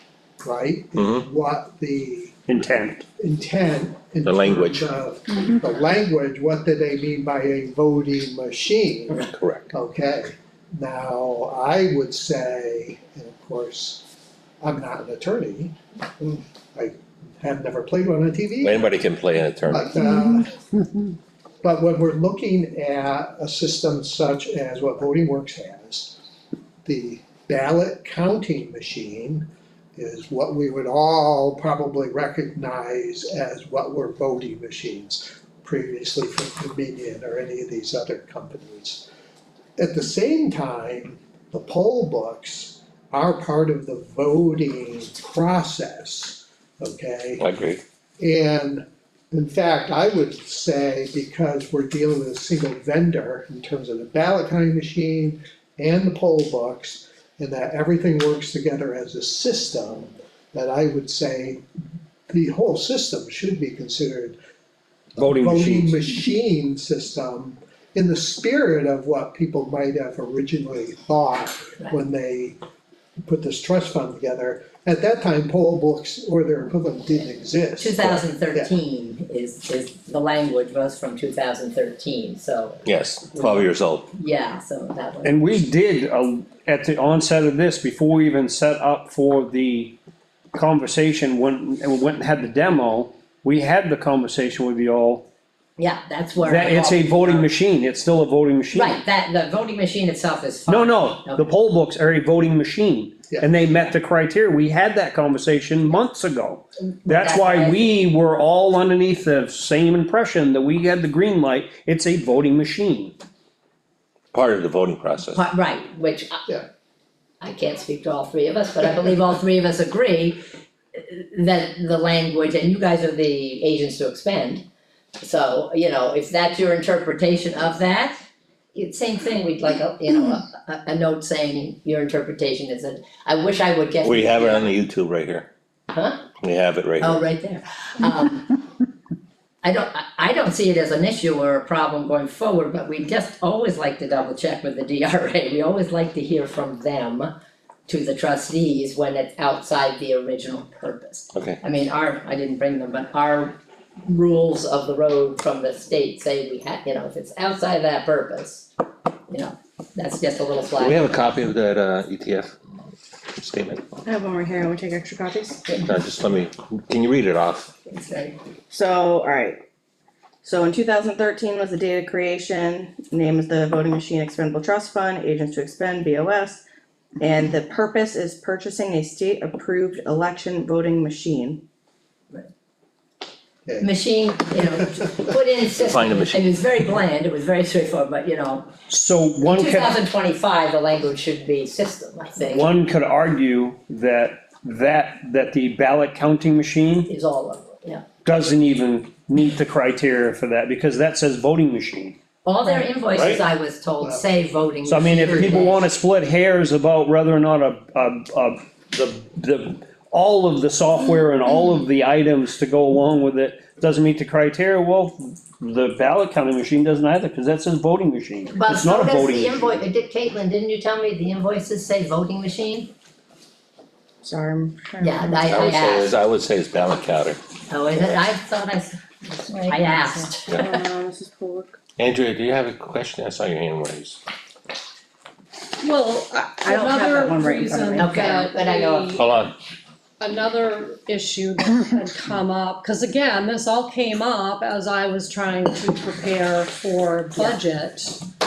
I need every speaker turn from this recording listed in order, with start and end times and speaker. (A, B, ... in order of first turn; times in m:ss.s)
0:00.4-0:02.4 A
0:01.0-0:01.2 B
0:02.5-0:03.0 C
0:03.2-0:14.0 A
0:04.2-0:04.9 B
0:09.2-0:09.7 B
0:14.6-0:19.0 A
0:18.6-0:20.0 B
0:19.7-0:20.5 A
0:21.6-0:26.2 A
0:26.8-0:39.1 A
0:39.8-0:47.4 A
0:47.4-0:47.8 B
0:48.2-1:01.6 A
1:02.3-1:04.4 A
1:05.2-1:06.0 C
1:05.2-1:12.6 A
1:13.2-1:18.7 A
1:17.8-1:25.4 D
1:22.8-1:24.1 B
1:25.2-1:30.0 C
1:30.5-1:35.3 C
1:35.8-1:37.5 D
1:36.4-1:39.0 C
1:38.7-1:41.4 D
1:40.7-1:53.1 C
1:43.3-1:43.5 A
1:47.0-1:47.9 D
1:54.3-1:55.4 B
1:55.3-1:56.4 D
1:57.4-2:00.4 D
2:00.9-2:04.6 D
2:05.2-2:08.2 D
2:08.7-2:14.8 D
2:14.0-2:15.5 B
2:15.9-2:16.2 D
2:16.4-2:17.2 B
2:17.0-2:18.5 D
2:19.6-2:27.3 D
2:27.9-2:38.7 D
2:31.3-2:31.6 B
2:39.3-2:41.2 D
2:40.8-2:42.5 B
2:43.4-2:44.0 B
2:44.0-2:45.6 E
2:45.8-2:47.7 B
2:47.9-2:48.3 D
2:48.7-2:49.6 E
2:50.4-2:56.6 E
2:57.2-3:01.6 E
3:03.6-3:03.9 A
3:03.8-3:08.7 D
3:05.8-3:06.6 B
3:08.9-3:10.0 C
3:09.4-3:12.7 D
3:12.4-3:17.1 C
3:17.0-3:18.0 D
3:18.2-3:22.2 C
3:22.4-3:25.8 D
3:23.1-3:23.4 C
3:24.8-3:39.8 C
3:25.1-3:25.7 A
3:38.5-3:42.9 D
3:44.2-3:45.4 E
3:45.0-3:46.1 D
3:45.4-3:47.4 B
3:47.7-3:50.6 D
3:50.6-3:51.8 E
3:52.0-3:54.2 B
3:55.8-3:59.2 F
3:56.6-3:58.0 E
3:57.9-3:59.2 D
3:59.1-3:59.5 B
4:00.2-4:08.2 F
4:07.4-4:07.6 D